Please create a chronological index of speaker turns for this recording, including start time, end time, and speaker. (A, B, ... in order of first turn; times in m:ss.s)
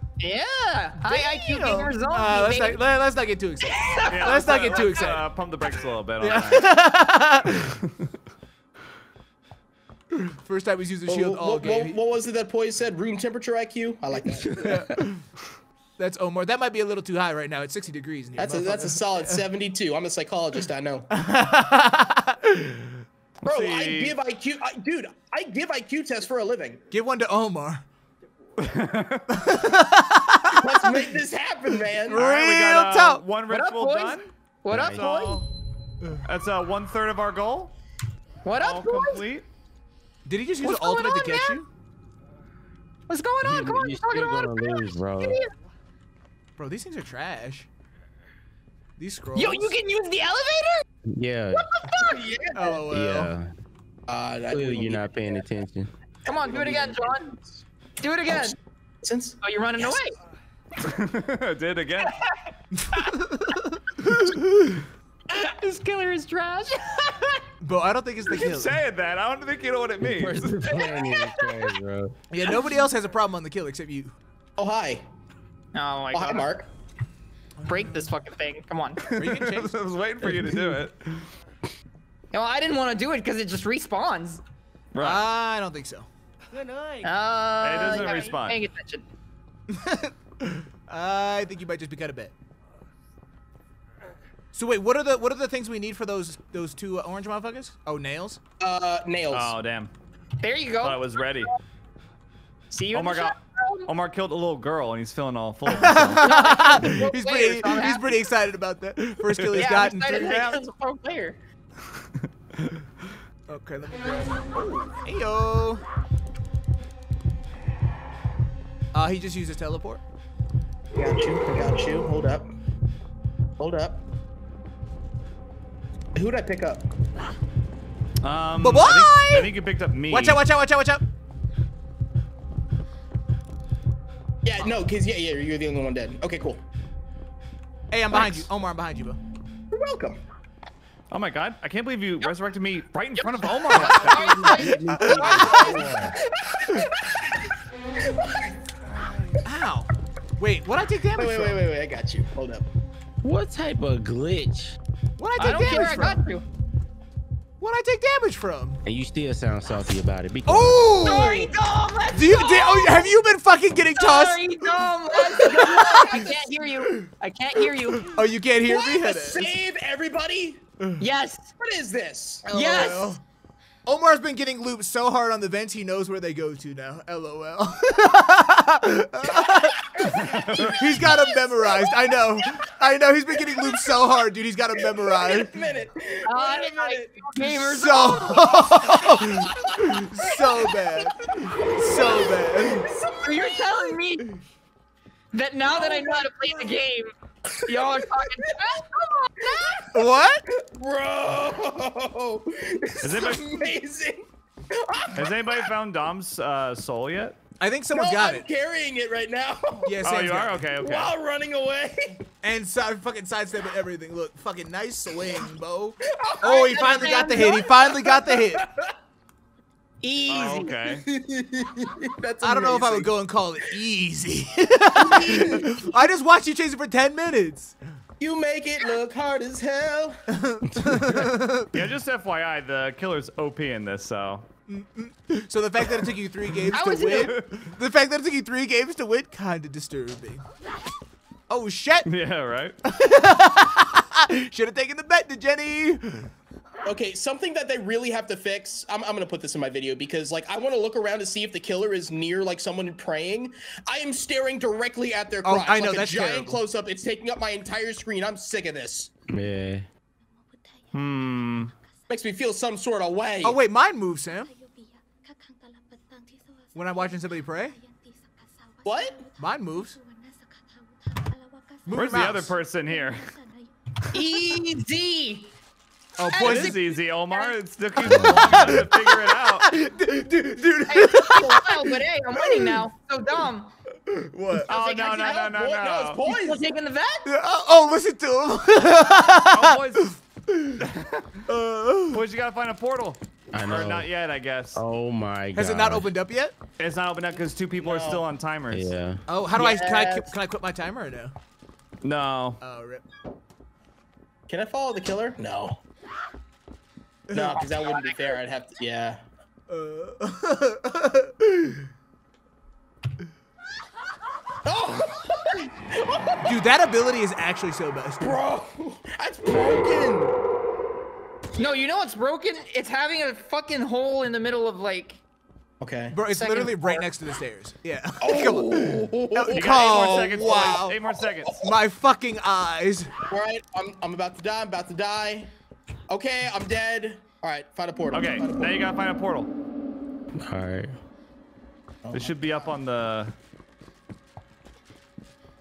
0:00.2-0:02.8 A
0:01.0-0:05.3 B
0:03.6-0:05.1 A
0:04.1-0:06.8 C
0:06.2-0:07.8 B
0:07.5-0:08.1 C
0:10.1-0:12.0 B
0:11.1-0:15.0 D
0:14.5-0:15.2 B
0:16.0-0:19.4 B
0:18.4-0:21.1 D
0:21.1-0:23.0 B
0:23.4-0:24.2 C
0:23.4-0:26.8 D
0:26.9-0:27.8 B
0:28.6-0:29.5 C
0:29.3-0:31.1 B
0:30.6-0:32.2 D
0:31.9-0:33.2 B
0:32.1-0:35.5 C
0:33.5-0:35.4 A
0:34.7-0:35.0 E
0:36.2-0:37.7 C
0:38.4-0:39.2 A
0:38.6-0:39.4 C
0:40.2-0:41.7 B
0:40.6-0:41.6 A
0:43.1-0:45.5 A
0:43.4-0:45.4 E
0:46.6-0:47.7 B
0:49.0-0:49.7 B
0:49.3-0:50.8 A
0:51.1-0:51.7 E
0:51.5-0:52.4 A
0:52.0-0:52.5 D
0:52.5-0:53.3 B
0:52.7-0:53.5 E
0:54.1-0:55.3 D
0:54.5-0:55.9 E
0:56.2-0:57.4 A
0:56.5-0:57.1 D
0:58.0-0:58.6 A
0:58.2-0:59.9 D
0:59.4-1:00.2 A
1:00.8-1:02.2 C
1:02.0-1:03.6 A
1:02.7-1:04.8 B
1:05.3-1:07.4 A
1:07.6-1:08.7 B
1:08.3-1:10.6 C
1:10.0-1:12.2 E
1:10.6-1:11.7 A
1:12.3-1:14.2 B
1:14.6-1:15.0 D
1:15.7-1:16.5 A
1:16.1-1:16.7 D
1:17.6-1:17.9 B
1:17.6-1:19.0 A
1:19.1-1:21.3 C
1:19.1-1:19.8 B
1:22.3-1:24.4 A
1:24.9-1:25.2 C
1:25.0-1:26.1 B
1:27.0-1:29.0 A
1:27.6-1:28.6 C
1:29.7-1:32.3 B
1:34.5-1:38.4 B
1:38.6-1:39.5 D
1:39.3-1:39.9 C
1:40.4-1:41.4 A
1:40.8-1:41.5 C
1:42.7-1:43.9 A
1:42.9-1:46.3 C
1:45.6-1:50.6 B
1:46.2-1:48.2 A
1:49.5-1:51.4 A
1:53.5-1:55.8 B
1:58.9-2:00.0 B
2:01.0-2:02.5 D
2:03.6-2:04.0 D
2:06.1-2:06.8 D
2:08.2-2:10.4 C
2:08.6-2:09.5 B
2:10.1-2:11.0 B
2:14.4-2:16.6 D
2:17.9-2:19.2 B
2:18.1-2:18.4 D
2:19.7-2:20.2 D
2:21.1-2:24.6 C
2:23.7-2:27.3 D
2:23.7-2:26.5 A
2:24.4-2:26.1 E
2:24.8-2:25.8 B
2:28.0-2:28.5 D
2:29.4-2:31.6 B
2:31.1-2:32.7 D
2:33.2-2:34.8 E
2:35.2-2:36.2 B
2:35.4-2:36.4 A
2:37.6-2:38.8 B
2:38.8-2:41.1 E
2:40.4-2:41.5 B
2:41.0-2:43.1 A
2:42.1-2:44.6 B
2:43.9-2:48.1 A
2:45.2-2:46.5 D
2:48.0-2:49.5 B
2:48.6-2:50.6 D
2:51.0-2:51.5 A
2:51.6-2:52.7 D
2:52.5-2:53.2 A
2:52.5-2:53.2 B
2:53.8-3:05.5 B
2:59.3-3:02.1 D
3:00.0-3:00.8 C
3:03.5-3:03.8 D
3:04.8-3:07.3 D
3:06.2-3:08.9 A
3:07.5-3:12.9 B
3:09.0-3:14.0 D
3:13.2-3:14.3 A
3:15.3-3:17.1 A
3:15.7-3:16.3 D
3:17.6-3:18.1 D
3:17.6-3:19.9 A
3:19.9-3:20.4 B
3:20.5-3:25.7 D
3:23.0-3:23.7 C
3:25.1-3:27.4 C
3:27.6-3:28.5 B
3:27.9-3:30.0 D
3:29.8-3:30.6 B
3:30.0-3:31.1 C
3:30.7-3:32.2 D
3:32.4-3:38.6 B
3:36.0-3:38.9 D
3:36.5-3:37.6 A
3:40.0-3:40.7 A
3:40.3-3:41.0 C
3:40.3-3:43.1 D
3:42.4-3:47.8 B
3:45.0-3:45.8 D
3:48.2-3:50.3 D
3:50.3-3:51.8 B
3:51.7-3:54.5 C
3:54.7-4:00.4 B
3:56.7-3:57.3 A
3:57.1-3:57.5 C
4:01.5-4:02.1 B
4:02.0-4:02.8 C
4:02.8-4:06.3 B
4:06.8-4:19.1 D
4:15.4-4:16.6 B
4:19.3-4:19.8 E
4:20.9-4:21.7 C
4:22.1-4:23.6 D
4:23.4-4:24.5 B
4:26.7-4:27.8 B
4:28.8-4:29.3 D
4:29.3-4:30.0 B
4:31.8-4:32.5 B
4:31.9-4:33.4 C
4:34.1-4:35.5 A
4:36.2-4:36.8 B
4:36.3-4:37.5 A
4:36.4-4:39.7 C
4:38.0-4:38.8 E
4:38.1-4:42.8 B
4:40.9-4:43.7 A
4:44.0-4:44.7 B
4:44.7-4:46.2 C
4:44.7-4:45.4 A
4:44.7-4:46.7 D
4:46.2-4:47.3 A
4:47.2-4:50.8 B
4:49.5-4:50.1 C
4:50.8-4:51.3 C
4:51.5-4:52.2 B
4:52.1-4:54.8 C
4:53.5-4:54.1 E
4:54.7-4:56.1 E
4:55.5-4:56.6 B
4:56.8-4:58.9 C
4:57.8-4:58.2 D
4:58.7-4:59.2 E
4:59.3-5:01.3 B
4:59.6-5:00.3 A
5:02.0-5:02.6 C
5:02.6-5:03.0 B
5:04.5-5:05.8 D
5:07.3-5:07.8 B
5:07.3-5:09.2 D
5:07.5-5:08.3 A
5:09.7-5:11.9 B
5:14.6-5:16.6 D
5:16.4-5:18.4 B
5:18.2-5:20.3 D
5:21.6-5:25.2 A
5:25.8-5:26.2 D
5:26.1-5:31.0 B
5:26.3-5:27.1 A
5:28.2-5:31.7 D
5:29.5-5:31.6 C
5:31.6-5:33.1 B
5:33.3-5:35.5 D
5:36.1-5:38.8 D
5:38.1-5:39.5 C
5:40.3-5:41.0 E
5:42.0-5:42.3 D
5:42.1-5:43.3 C